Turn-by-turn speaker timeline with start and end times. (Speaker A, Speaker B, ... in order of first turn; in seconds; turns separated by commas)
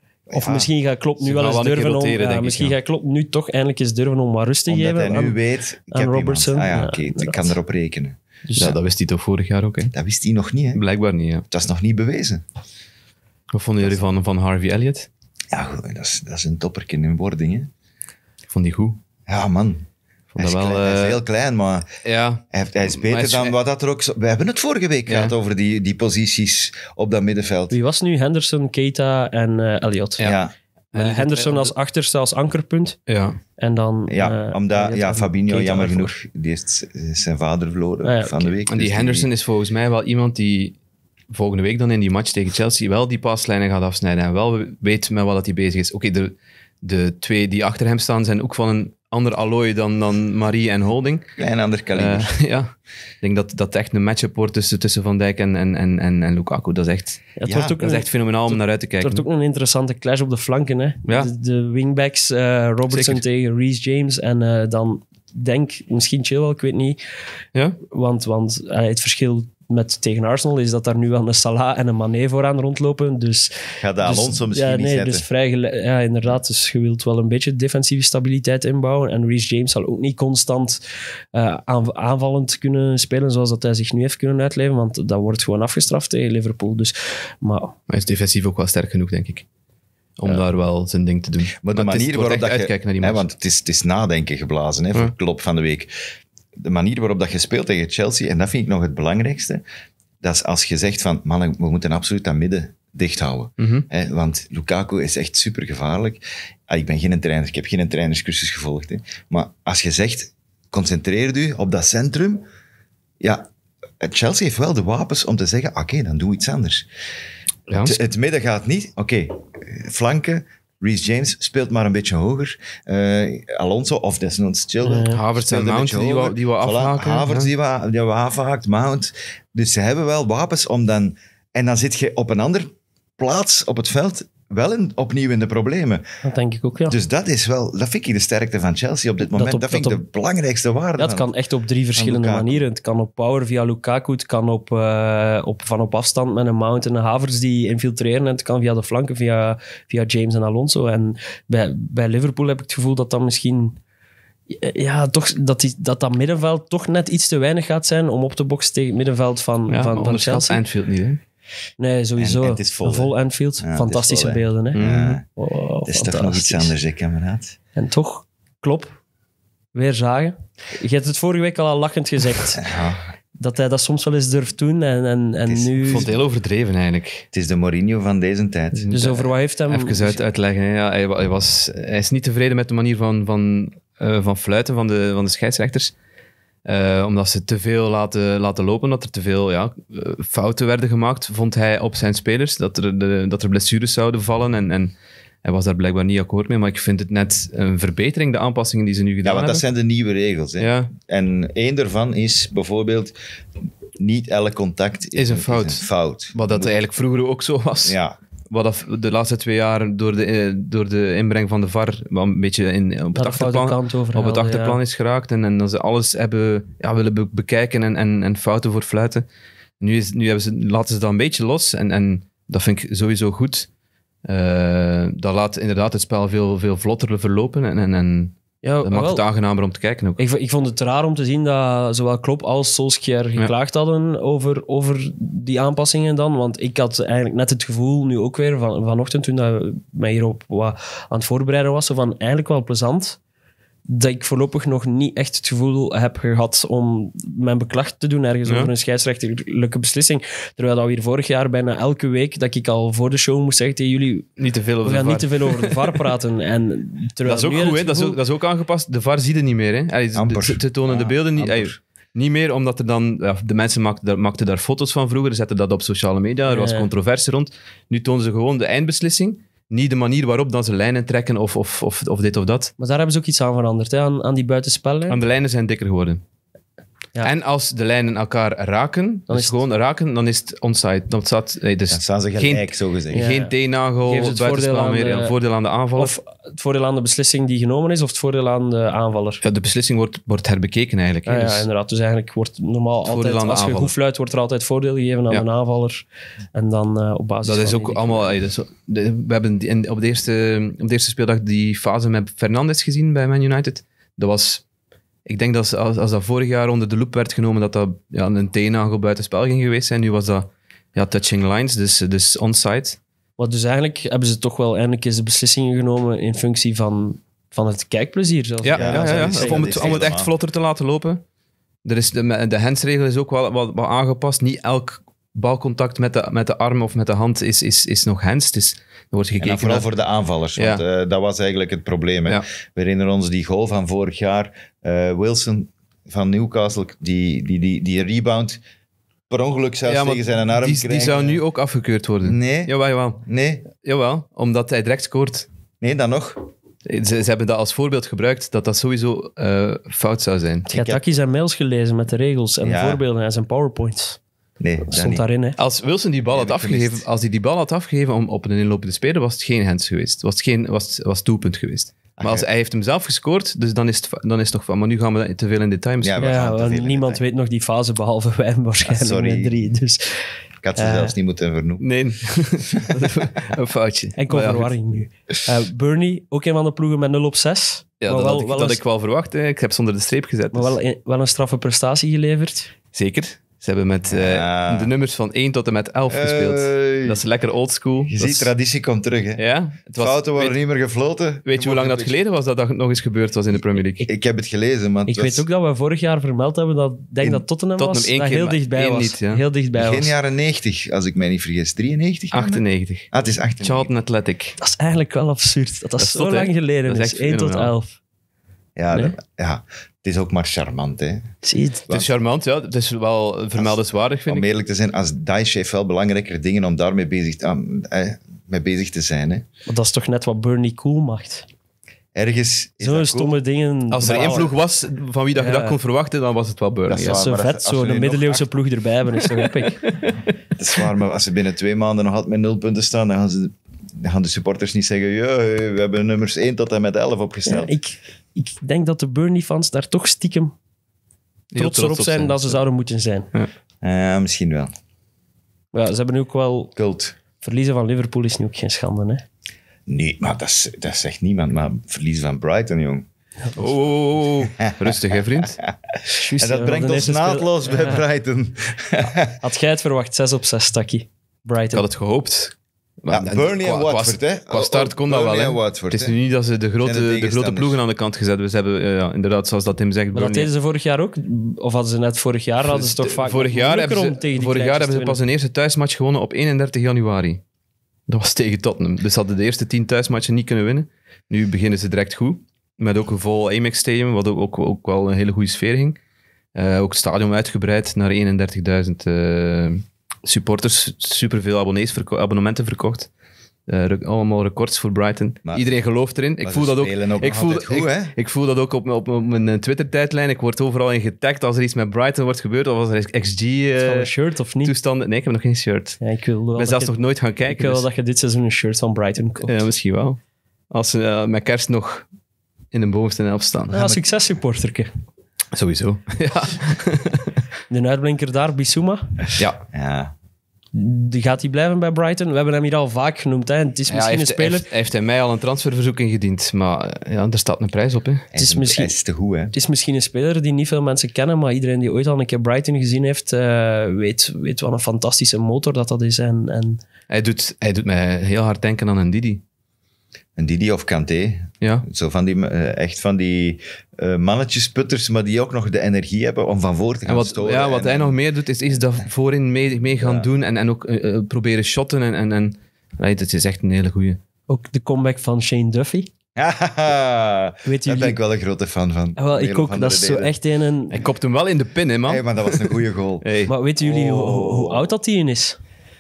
Speaker A: 0.3-0.7, Speaker B: 0.3-5.4, Speaker C: 1.2-2.8, Speaker A: 4.7-8.2, Speaker B: 5.9-7.5, Speaker B: 8.5-8.8, Speaker C: 8.6-9.9, Speaker A: 9.9-10.8, Speaker C: 10.8-11.4, Speaker A: 11.5-12.4, Speaker C: 13.5-15.1, Speaker A: 15.5-17.7, Speaker C: 18.5-19.0, Speaker A: 19.3-19.9, Speaker C: 20.3-21.2, Speaker A: 20.4-21.9, Speaker C: 22.0-23.6, Speaker A: 22.5-27.8, Speaker C: 25.1-25.3, Speaker B: 27.7-30.2, Speaker A: 30.2-30.5, Speaker C: 30.9-31.7, Speaker B: 30.9-33.0, Speaker C: 33.1-33.4, Speaker B: 33.6-36.1, Speaker A: 34.1-39.3, Speaker B: 38.0-38.5, Speaker C: 38.7-40.8, Speaker C: 41.3-51.3, Speaker A: 51.4-52.3, Speaker C: 51.9-59.2, Speaker B: 57.4-67.0, Speaker A: 57.5-57.8, Speaker C: 62.9-63.2, Speaker B: 67.9-80.8, Speaker A: 73.8-75.3, Speaker B: 81.3-87.8, Speaker C: 87.9-89.5, Speaker C: 90.2-93.2, Speaker A: 91.6-95.9, Speaker A: 96.6-99.6, Speaker A: 100.2-112.5, Speaker C: 103.6-103.8, Speaker A: 113.2-113.5, Speaker A: 114.0-116.9, Speaker C: 117.7-118.0, Speaker A: 117.8-136.0, Speaker B: 124.8-125.2, Speaker C: 125.1-127.5, Speaker B: 136.2-137.0, Speaker A: 136.9-141.3, Speaker B: 139.3-140.0, Speaker B: 141.0-153.8, Speaker A: 142.0-142.6, Speaker B: 154.5-160.6, Speaker C: 159.7-161.2, Speaker B: 161.8-164.8, Speaker A: 162.2-165.2, Speaker C: 164.8-165.2, Speaker B: 165.4-166.7, Speaker A: 165.9-167.6, Speaker B: 167.8-168.9, Speaker B: 169.7-172.6, Speaker A: 172.6-173.1, Speaker B: 173.4-176.1, Speaker A: 175.4-176.2, Speaker C: 175.9-177.2, Speaker A: 177.3-179.3, Speaker C: 178.7-179.0, Speaker B: 178.9-180.2, Speaker C: 179.7-185.9, Speaker C: 186.7-194.9, Speaker C: 195.4-199.6, Speaker A: 199.2-203.2, Speaker C: 200.6-200.9, Speaker A: 204.0-206.7, Speaker C: 205.2-208.0, Speaker A: 207.8-208.2, Speaker C: 208.5-219.3, Speaker B: 213.2-214.8, Speaker C: 219.8-223.7, Speaker C: 224.2-230.2, Speaker B: 228.6-229.2, Speaker B: 230.2-243.2, Speaker B: 243.9-254.3, Speaker C: 248.5-248.7, Speaker C: 254.4-256.0, Speaker B: 254.8-258.2, Speaker C: 257.3-272.7, Speaker A: 260.1-261.8, Speaker B: 266.5-266.9, Speaker B: 272.8-275.2, Speaker C: 275.1-276.2, Speaker C: 277.2-286.1, Speaker B: 279.3-279.6, Speaker A: 281.9-283.3, Speaker B: 283.1-285.3, Speaker B: 286.0-289.4, Speaker C: 289.4-291.7, Speaker B: 291.3-298.3, Speaker C: 293.1-293.9, Speaker C: 297.4-304.6, Speaker C: 305.3-313.0, Speaker B: 313.4-320.0, Speaker C: 318.6-321.2, Speaker A: 318.7-320.3, Speaker C: 321.9-329.9, Speaker A: 329.4-338.6, Speaker C: 330.6-330.8, Speaker A: 339.3-341.4, Speaker C: 339.9-345.5, Speaker A: 342.2-343.6, Speaker A: 345.8-346.4, Speaker C: 346.9-350.7, Speaker A: 350.7-351.0, Speaker B: 350.7-354.2, Speaker A: 352.6-353.0, Speaker A: 354.6-355.2, Speaker B: 354.9-355.6, Speaker C: 355.6-366.2, Speaker A: 356.3-357.0, Speaker A: 362.2-362.5, Speaker A: 366.0-367.2, Speaker B: 366.2-371.1, Speaker A: 368.8-369.6, Speaker A: 370.6-371.8, Speaker C: 371.8-374.8, Speaker B: 374.2-378.8, Speaker C: 378.0-380.8, Speaker B: 380.5-382.7, Speaker C: 382.9-388.5, Speaker A: 384.1-384.9, Speaker A: 386.1-387.2, Speaker A: 388.1-389.4, Speaker C: 389.4-390.5, Speaker A: 390.0-392.1, Speaker C: 391.5-394.0, Speaker A: 394.0-395.5, Speaker B: 395.1-400.1, Speaker C: 397.8-399.4, Speaker A: 399.7-403.9, Speaker C: 402.3-404.6, Speaker B: 404.6-408.0, Speaker C: 406.0-407.7, Speaker A: 408.8-411.3, Speaker B: 411.4-411.9, Speaker C: 411.9-414.5, Speaker A: 413.6-419.4, Speaker B: 419.7-421.5, Speaker A: 422.1-423.4, Speaker B: 422.8-424.5, Speaker C: 423.9-427.2, Speaker A: 424.0-424.5, Speaker B: 425.4-425.8, Speaker A: 426.9-428.5, Speaker B: 427.1-429.8, Speaker C: 429.8-430.1, Speaker A: 430.6-437.8, Speaker B: 437.5-440.5, Speaker C: 441.5-442.6, Speaker B: 441.6-443.3, Speaker A: 443.8-444.7, Speaker B: 445.7-446.7, Speaker A: 446.8-447.2, Speaker B: 447.4-449.2, Speaker A: 449.9-453.1, Speaker C: 453.6-455.6, Speaker A: 454.4-454.9, Speaker A: 455.9-459.4, Speaker B: 456.2-458.0, Speaker B: 459.4-461.8, Speaker C: 461.7-470.5, Speaker A: 463.1-466.2, Speaker A: 466.8-467.8, Speaker B: 470.1-475.2, Speaker C: 472.7-477.4, Speaker C: 478.1-486.0, Speaker C: 486.6-493.1, Speaker C: 493.7-506.0, Speaker A: 495.5-495.8, Speaker A: 496.4-498.1, Speaker B: 503.8-504.7, Speaker B: 506.0-506.9, Speaker C: 506.6-507.9, Speaker B: 507.5-509.5, Speaker C: 509.4-510.2, Speaker C: 510.7-512.1, Speaker C: 512.7-514.0, Speaker B: 513.7-514.9, Speaker C: 515.5-517.3, Speaker B: 517.7-519.2, Speaker A: 519.7-520.1, Speaker B: 520.7-524.7, Speaker C: 523.9-528.3, Speaker A: 528.3-529.5, Speaker B: 528.4-528.9, Speaker B: 529.5-536.8, Speaker C: 537.1-539.4, Speaker A: 540.4-548.2, Speaker C: 547.1-554.2, Speaker A: 550.0-550.3, Speaker B: 554.5-556.1, Speaker A: 556.4-560.3, Speaker B: 557.6-558.2, Speaker B: 559.2-561.0, Speaker C: 560.9-562.7, Speaker A: 562.1-563.2, Speaker C: 563.2-563.5, Speaker B: 563.5-565.6, Speaker A: 564.0-564.5